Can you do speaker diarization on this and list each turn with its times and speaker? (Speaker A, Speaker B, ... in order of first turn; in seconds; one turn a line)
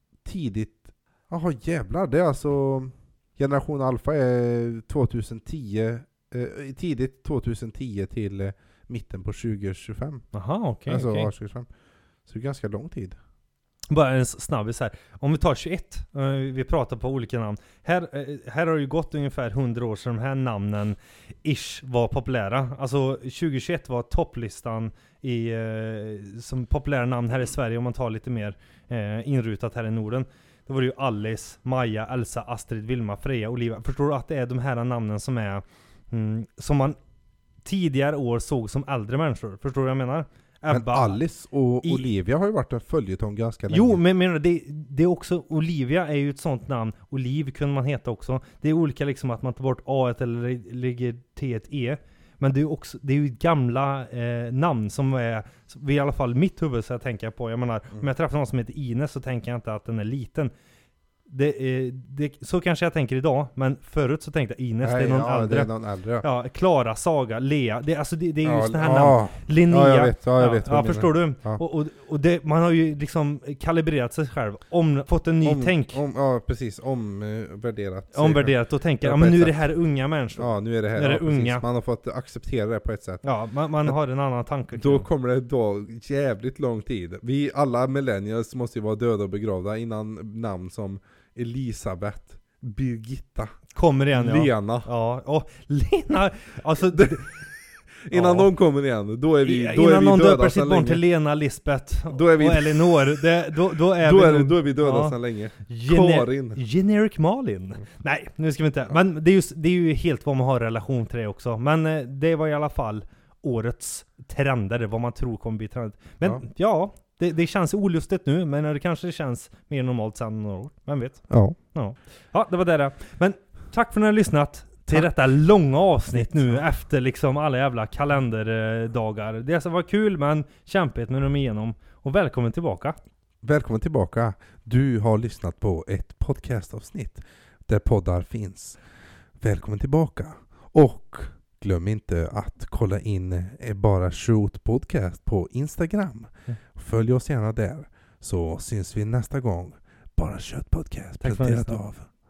Speaker A: 0.2-10.2
Speaker B: 10.3-11.3
Speaker A: 10.9-11.7
Speaker A: 12.3-13.2
Speaker B: 13.9-37.0
Speaker B: 37.6-41.2
Speaker A: 40.7-44.0
Speaker B: 43.7-60.5
Speaker B: 61.3-65.7
Speaker A: 64.8-66.2
Speaker B: 66.2-76.0
Speaker A: 68.4-71.6
Speaker A: 75.4-79.7
Speaker B: 78.1-81.6
Speaker A: 80.4-83.2
Speaker B: 83.2-85.1
Speaker A: 84.7-93.5
Speaker B: 93.7-97.3
Speaker A: 94.1-94.9
Speaker A: 96.9-97.2
Speaker A: 98.0-101.0
Speaker B: 98.1-98.5
Speaker B: 99.4-121.2
Speaker A: 102.1-103.2
Speaker A: 104.0-106.6
Speaker A: 121.3-121.6
Speaker B: 121.7-132.9
Speaker A: 126.1-126.6
Speaker A: 133.4-138.8
Speaker A: 139.4-152.1
Speaker B: 151.2-151.8